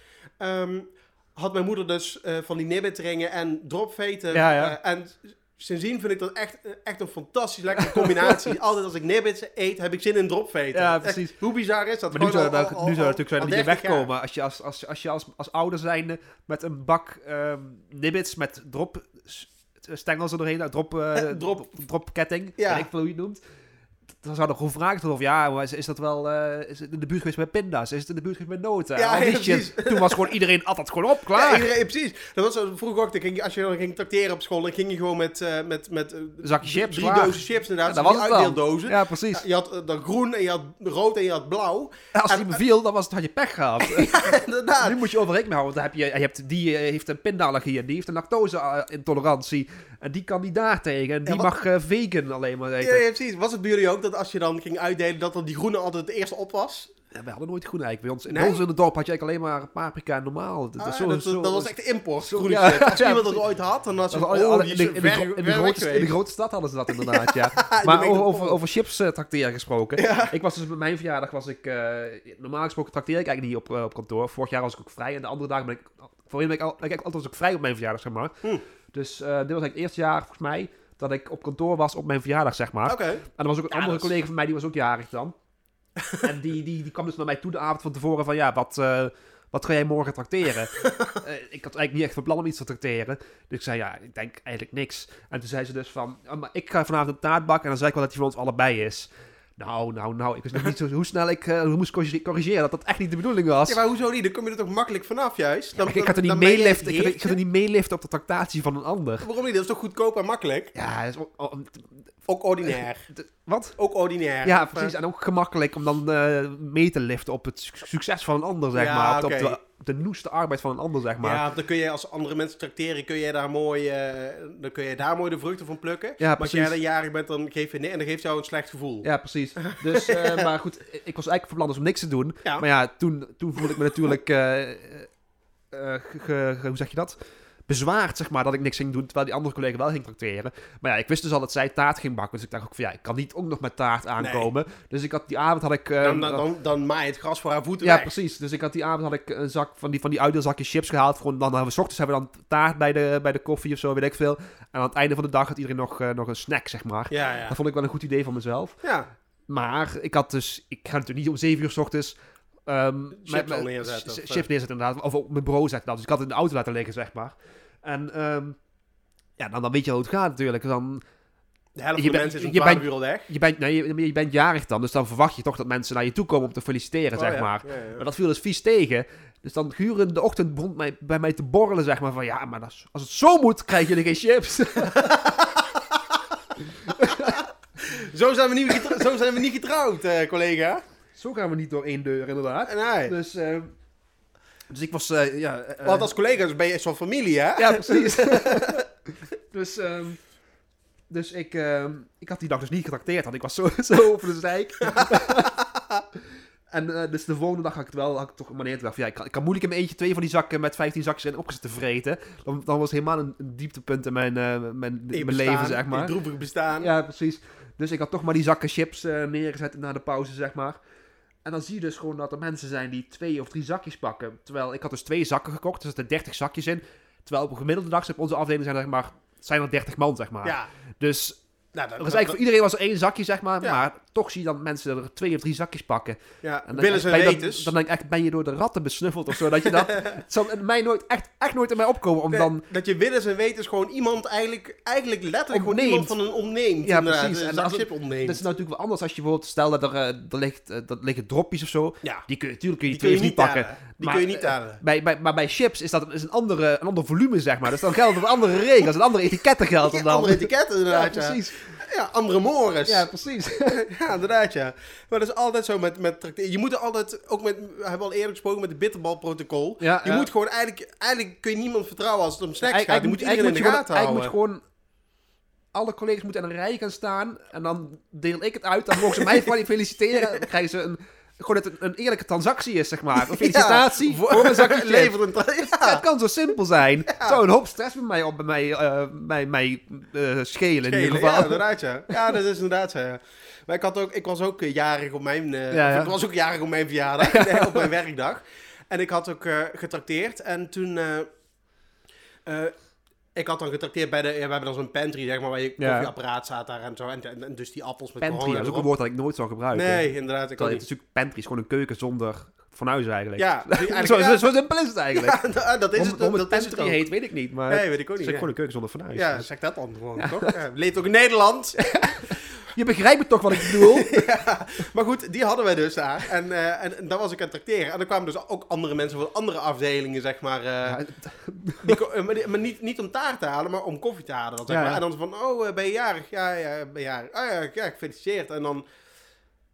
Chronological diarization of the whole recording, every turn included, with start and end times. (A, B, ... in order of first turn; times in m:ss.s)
0:00.4-0:14.1 A
0:04.3-0:04.8 B
0:07.8-0:08.4 B
0:10.7-0:11.3 B
0:12.1-0:23.4 B
0:21.1-0:21.7 A
0:22.6-0:22.9 A
0:24.2-0:31.7 B
0:29.0-0:30.2 A
0:31.3-0:42.6 A
0:36.4-0:39.4 B
0:42.1-0:44.2 B
0:43.8-0:45.0 A
0:44.8-0:53.0 B
0:51.2-0:51.5 A
0:52.8-0:56.9 A
0:57.1-1:03.4 B
0:58.3-0:58.6 A
1:00.8-1:06.1 A
1:04.1-1:18.4 B
1:06.9-1:08.6 A
1:10.0-1:10.3 A
1:18.9-1:25.3 B
1:22.8-1:24.1 A
1:26.2-1:43.8 B
1:30.8-1:31.1 A
1:43.7-1:47.4 A
1:45.8-1:49.3 B
1:49.2-1:50.7 A
1:50.7-1:51.9 B
1:52.3-1:53.0 A
1:53.1-1:53.8 B
1:53.8-1:54.9 A
1:54.4-2:01.4 B
1:58.7-1:59.6 A
2:01.2-2:09.1 A
2:06.2-2:06.7 B
2:09.0-2:15.1 B
2:09.6-2:10.4 A
2:15.7-2:17.2 B
2:17.7-2:26.4 B
2:24.2-2:24.5 A
2:26.0-2:28.2 A
2:27.8-2:38.8 B
2:37.1-2:37.6 A
2:38.8-2:39.1 A
2:39.5-2:42.2 B
2:42.7-2:48.6 B
2:43.1-2:44.4 A
2:49.4-2:51.0 B
2:51.8-2:53.3 A
2:52.0-3:05.2 B
2:57.2-2:58.0 A
3:04.9-3:05.6 A
3:06.9-3:07.3 B
3:07.2-3:10.8 A
3:11.2-3:13.7 B
3:12.6-3:13.1 A
3:14.7-3:16.1 B
3:15.8-3:18.7 A
3:17.6-3:18.9 B
3:19.5-3:20.2 B
3:21.1-3:25.5 B
3:24.8-3:26.0 A
3:26.7-3:36.1 B
3:35.1-3:36.9 A
3:36.8-3:40.8 B
3:41.4-3:51.4 B
3:50.4-3:50.7 A
3:51.7-3:52.4 A
3:52.0-4:02.6 B
3:56.4-3:57.7 A
3:59.8-4:00.2 A
4:02.3-4:08.4 A
4:05.5-4:06.2 B
4:06.8-4:21.6 B
4:12.9-4:14.8 A
4:19.8-4:23.1 A
4:22.8-4:23.8 B
4:23.7-4:34.3 A
4:29.8-4:30.3 B
4:32.6-4:34.6 B
4:35.7-4:51.6 B
4:39.1-4:39.4 A
4:43.2-4:46.0 A
4:47.1-4:47.4 A
4:50.8-5:01.3 A
4:55.7-4:56.1 B
4:57.2-4:57.8 B
5:02.4-5:02.7 A
5:03.3-5:08.9 A
5:05.8-5:06.1 B
5:08.2-5:15.4 B
5:09.7-5:10.8 A
5:13.4-5:14.5 A
5:15.1-5:17.0 A
5:15.9-5:19.4 B
5:17.7-5:18.5 A
5:19.1-5:22.3 A
5:20.2-5:20.5 B
5:21.8-5:24.1 B
5:23.6-5:31.0 A
5:30.8-5:32.0 B
5:31.8-5:38.8 A
5:34.7-5:35.0 B